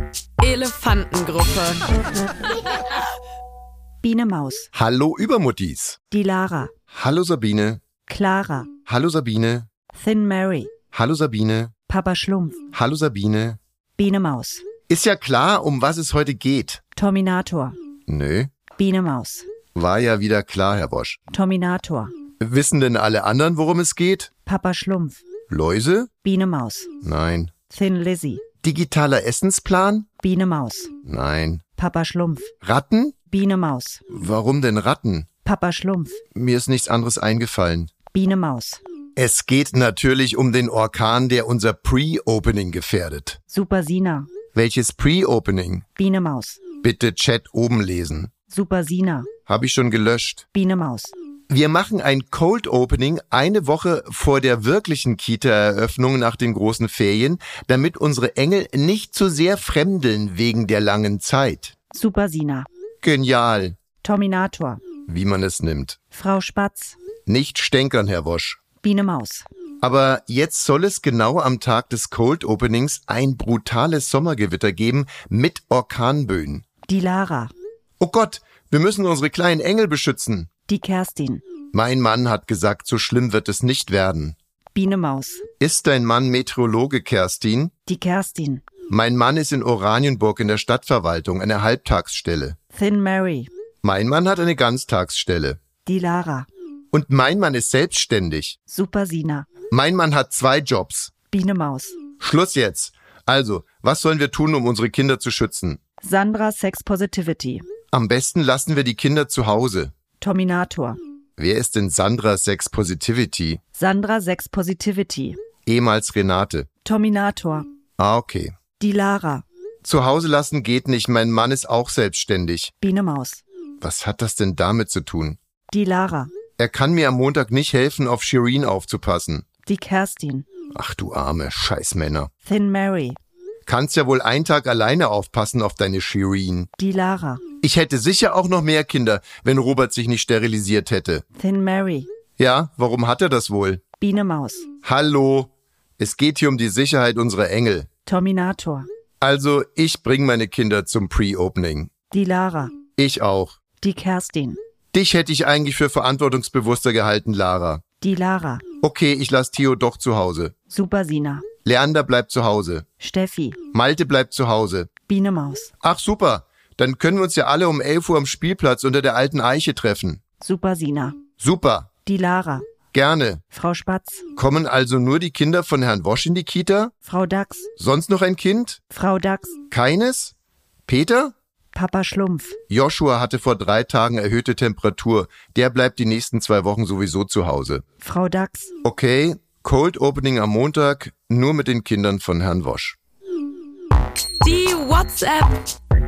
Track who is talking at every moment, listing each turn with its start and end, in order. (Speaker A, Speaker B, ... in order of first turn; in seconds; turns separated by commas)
Speaker A: 0.4-1.8, Speaker B: 4.0-4.7, Speaker C: 4.7-6.0, Speaker B: 6.1-6.7, Speaker C: 6.9-7.8, Speaker B: 8.1-8.7, Speaker C: 8.8-9.7, Speaker B: 9.9-10.7, Speaker C: 10.9-11.7, Speaker B: 11.9-12.6, Speaker C: 12.7-13.6, Speaker B: 14.0-14.6, Speaker C: 14.9-16.8, Speaker B: 16.9-17.8, Speaker C: 18.1-18.5, Speaker B: 18.8-19.5, Speaker C: 19.7-21.2, Speaker B: 21.3-22.1, Speaker C: 22.4-24.3, Speaker B: 24.4-25.2, Speaker C: 25.5-26.1, Speaker B: 26.2-26.9, Speaker C: 27.0-27.5, Speaker B: 27.7-28.4, Speaker C: 28.6-30.1, Speaker B: 30.2-30.9, Speaker C: 31.0-31.6, Speaker B: 31.8-32.5, Speaker C: 32.6-33.1, Speaker B: 33.3-34.0, Speaker C: 34.1-35.3, Speaker B: 35.4-36.2, Speaker C: 36.3-37.9, Speaker B: 38.1-38.8, Speaker C: 39.1-43.4, Speaker B: 43.5-44.3, Speaker C: 44.5-45.8, Speaker B: 46.0-46.6, Speaker C: 46.8-48.3, Speaker B: 48.5-49.3, Speaker C: 49.5-50.4, Speaker B: 50.5-51.1, Speaker C: 51.5-61.7, Speaker B: 61.9-62.7, Speaker C: 63.0-63.8, Speaker B: 64.0-64.8, Speaker C: 65.1-66.0, Speaker B: 66.1-67.0, Speaker C: 67.2-68.6, Speaker B: 68.8-69.5, Speaker C: 69.8-76.6, Speaker B: 76.9-77.5, Speaker C: 78.0-80.5, Speaker B: 80.7-81.4, Speaker C: 81.7-84.3, Speaker B: 84.7-85.4, Speaker C: 85.6-87.7, Speaker B: 87.8-88.6, Speaker C: 88.9-92.6, Speaker B: 92.7-93.5, Speaker C: 93.8-95.6, Speaker B: 95.8-96.5, Speaker C: 96.9-98.6, Speaker B: 98.7-99.5, Speaker C: 99.7-101.1, Speaker B: 101.3-102.0, Speaker C: 102.2-105.8, Speaker B: 106.0-107.6, Speaker C: 107.9-109.9, Speaker B: 110.2-111.0, Speaker C: 111.4-113.6, Speaker B: 113.7-115.4, Speaker C: 115.7-116.7, Speaker B: 116.8-117.7, Speaker C: 118.0-118.5, Speaker B: 118.8-119.4, Speaker C: 119.8-122.7, Speaker B: 122.8-123.4, Speaker C: 123.8-125.4, Speaker B: 125.7-126.3, Speaker C: 126.6-129.4, Speaker B: 129.6-130.4, Speaker C: 130.7-132.3, Speaker B: 132.4-133.2, Speaker C: 133.7-136.7, Speaker B: 136.8-137.4, Speaker C: 137.6-141.2, Speaker B: 141.3-142.1, Speaker C: 142.4-143.8, Speaker B: 144.0-144.7, Speaker C: 144.8-147.9, Speaker B: 148.1-148.9, Speaker C: 149.2-151.9, Speaker B: 152.1-152.8, Speaker C: 153.0-153.6, Speaker B: 153.8-154.6, Speaker C: 154.9-157.8, Speaker B: 158.0-158.6, Speaker C: 158.8-160.5, Speaker B: 160.7-161.4, Speaker C: 161.6-162.8, Speaker B: 163.0-163.6, Speaker C: 163.7-164.9, Speaker B: 165.1-165.7, Speaker C: 165.8-170.2, Speaker B: 170.4-171.2, Speaker C: 171.4-171.9, Speaker B: 172.0-172.7, Speaker C: 172.9-173.4, Speaker B: 173.5-174.2, Speaker C: 174.3-176.9, Speaker B: 177.0-177.7, Speaker C: 177.8-178.8, Speaker B: 178.9-179.6, Speaker C: 179.7-180.3, Speaker C: 180.9-181.3, Speaker B: 181.7-182.6, Speaker C: 182.7-187.8, Speaker B: 188.0-188.7, Speaker C: 188.8-193.0, Speaker A: 194.4-195.7